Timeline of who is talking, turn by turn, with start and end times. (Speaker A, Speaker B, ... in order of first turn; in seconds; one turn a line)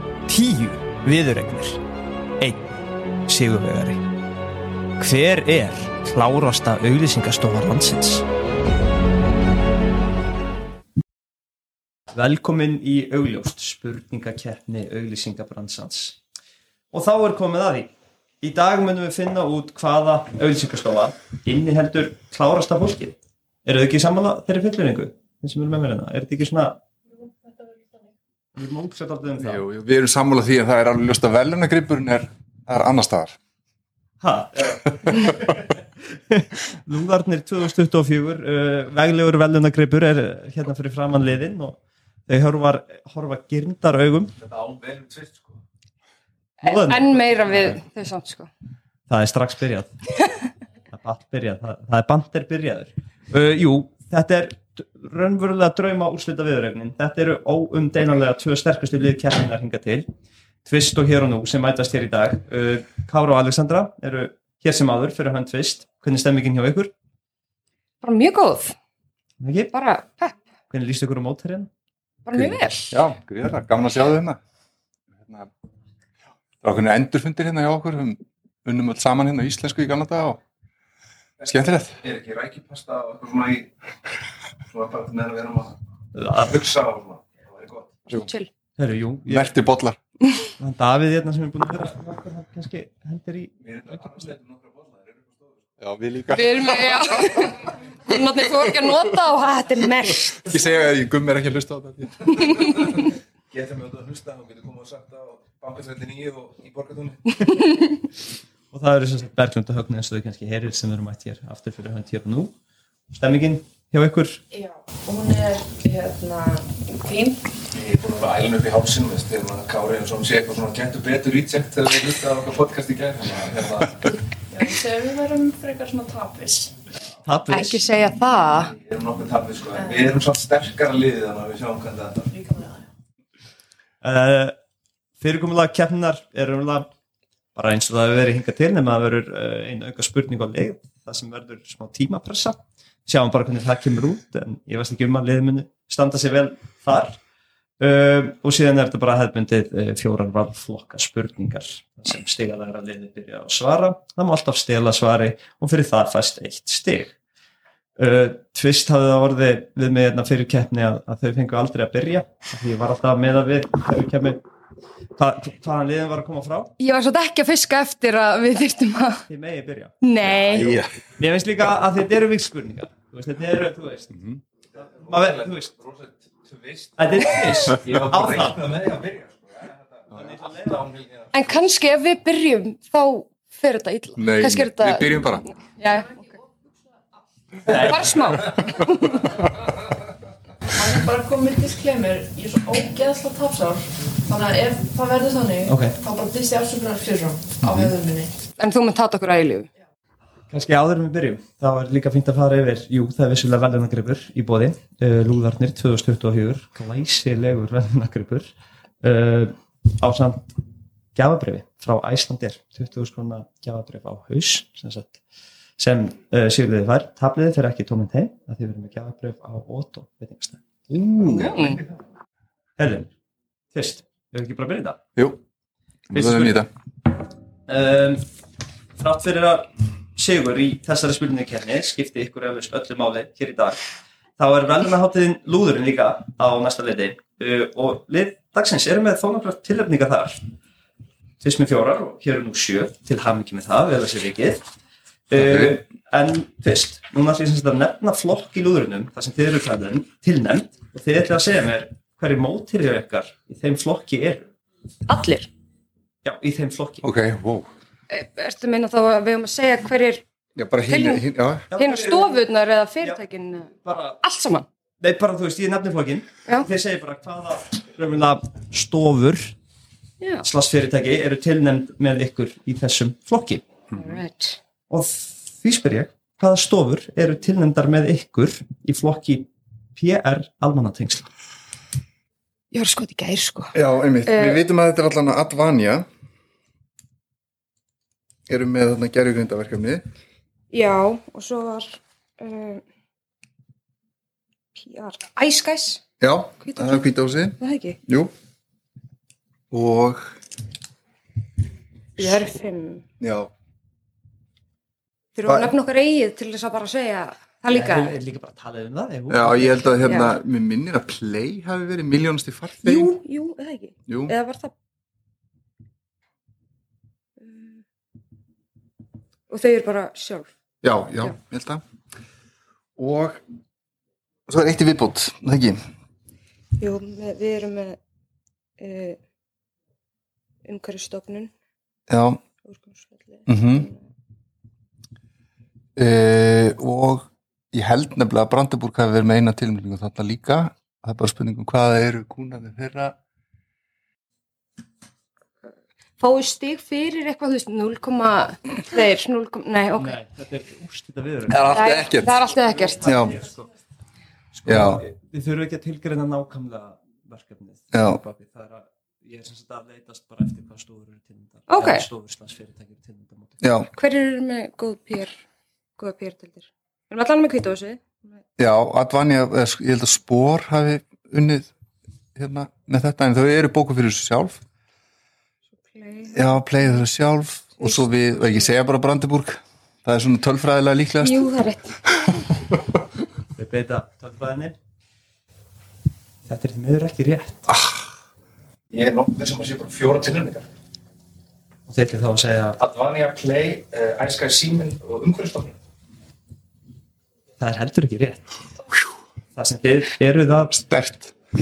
Speaker A: 0.3-1.8
Speaker A: 2.4-2.6
Speaker A: 3.2-4.0
Speaker A: 5.0-8.2
Speaker A: 12.1-16.2
Speaker A: 16.9-26.8
Speaker B: 27.2-28.0
Speaker A: 28.5-29.6
Speaker C: 29.4-33.4
Speaker A: 34.2-44.3
Speaker D: 44.4-45.6
Speaker E: 46.6-48.5
Speaker A: 46.6-47.8
Speaker A: 49.1-49.9
Speaker E: 50.2-50.4
Speaker A: 50.9-60.0
Speaker A: 60.6-66.9
Speaker E: 68.0-68.8
Speaker A: 69.4-69.7
Speaker E: 69.7-70.3
Speaker A: 70.7-71.7
Speaker E: 72.2-73.0
Speaker C: 72.3-74.4
Speaker C: 75.1-75.5
Speaker C: 76.6-80.4
Speaker D: 81.4-83.7
Speaker C: 81.5-82.0
Speaker D: 84.7-85.8
Speaker A: 86.1-86.6
Speaker D: 86.4-88.0
Speaker E: 88.1-88.5
Speaker A: 88.8-89.6
Speaker C: 89.3-90.0
Speaker A: 90.6-94.0
Speaker D: 93.6-95.8
Speaker C: 95.8-97.5
Speaker E: 96.3-100.5
Speaker C: 98.1-98.9
Speaker C: 100.3-102.8
Speaker D: 102.4-107.6
Speaker A: 108.7-112.5
Speaker A: 113.2-114.4
Speaker B: 114.5-117.5
Speaker D: 117.7-124.2
Speaker B: 124.5-126.8
Speaker A: 127.2-127.8
Speaker E: 127.5-128.7
Speaker D: 128.6-132.3
Speaker B: 132.3-132.8
Speaker A: 134.0-134.5
Speaker A: 135.2-136.9
Speaker A: 137.5-147.2
Speaker A: 147.8-157.1
Speaker A: 158.0-164.4
Speaker A: 165.2-166.7
Speaker E: 166.8-169.2
Speaker A: 169.3-169.9
Speaker E: 170.0-170.8
Speaker C: 170.2-170.9
Speaker A: 171.2-174.1
Speaker C: 174.1-174.4
Speaker D: 174.8-181.6
Speaker A: 174.8-175.7
Speaker A: 177.0-178.6
Speaker A: 180.1-180.8
Speaker E: 181.3-186.3
Speaker C: 184.2-185.4
Speaker B: 185.9-186.6
Speaker A: 187.7-188.5
Speaker E: 187.7-189.3
Speaker B: 190.7-198.3
Speaker A: 195.7-195.9
Speaker C: 197.6-197.9
Speaker E: 198.6-199.7
Speaker A: 200.5-208.5
Speaker A: 209.0-210.5
Speaker A: 211.2-215.2
Speaker A: 215.8-220.7
Speaker C: 220.9-221.5
Speaker E: 221.3-221.8
Speaker D: 221.3-221.9
Speaker A: 222.8-223.1
Speaker A: 223.7-225.0
Speaker C: 226.1-226.7
Speaker A: 226.1-226.6
Speaker A: 227.7-228.2
Speaker A: 229.0-233.8
Speaker A: 234.4-240.4
Speaker A: 241.4-244.6
Speaker A: 245.3-254.5
Speaker C: 245.3-245.8
Speaker E: 255.1-255.5
Speaker A: 256.2-257.1
Speaker C: 257.0-257.7
Speaker E: 258.1-260.2
Speaker C: 260.6-261.7
Speaker E: 260.9-264.7
Speaker A: 261.7-262.4
Speaker A: 263.8-264.2
Speaker A: 265.0-269.5
Speaker A: 270.4-273.6
Speaker C: 273.9-274.2
Speaker E: 273.9-274.6
Speaker A: 274.9-281.3
Speaker E: 282.7-284.6
Speaker C: 283.7-286.1
Speaker C: 288.5-290.0
Speaker E: 290.7-292.8
Speaker E: 294.7-296.1
Speaker C: 296.2-298.3
Speaker E: 296.6-297.0
Speaker E: 297.6-298.0
Speaker C: 299.7-300.3
Speaker E: 302.2-303.0
Speaker C: 303.2-303.5
Speaker E: 305.3-308.1
Speaker C: 305.4-305.7
Speaker A: 307.7-310.2
Speaker C: 309.3-313.1
Speaker E: 310.0-310.3
Speaker E: 312.8-314.7
Speaker C: 314.1-314.3
Speaker E: 317.4-317.8
Speaker E: 319.5-320.5
Speaker C: 320.8-321.8
Speaker C: 323.0-323.4
Speaker C: 324.5-325.8
Speaker E: 326.8-328.0
Speaker E: 328.8-329.2
Speaker E: 330.6-331.5
Speaker C: 332.1-332.4
Speaker E: 332.6-334.0
Speaker C: 333.5-333.9
Speaker C: 335.9-343.1
Speaker E: 346.2-350.1
Speaker A: 350.0-353.7
Speaker C: 351.5-352.4
Speaker E: 351.7-353.2
Speaker C: 353.0-353.3
Speaker A: 354.5-363.6
Speaker C: 354.6-355.0
Speaker C: 357.9-358.2
Speaker E: 361.7-362.0
Speaker C: 363.6-363.9
Speaker E: 363.9-365.3
Speaker E: 366.0-368.4
Speaker C: 368.6-371.7
Speaker C: 372.3-374.6
Speaker E: 375.8-376.4
Speaker C: 376.3-381.5
Speaker E: 377.8-378.5
Speaker E: 381.2-382.4
Speaker A: 383.6-384.8
Speaker A: 386.4-387.7
Speaker D: 388.9-390.7
Speaker A: 391.9-392.8
Speaker D: 392.8-395.8
Speaker A: 397.6-398.5
Speaker A: 399.6-400.8
Speaker C: 400.7-401.3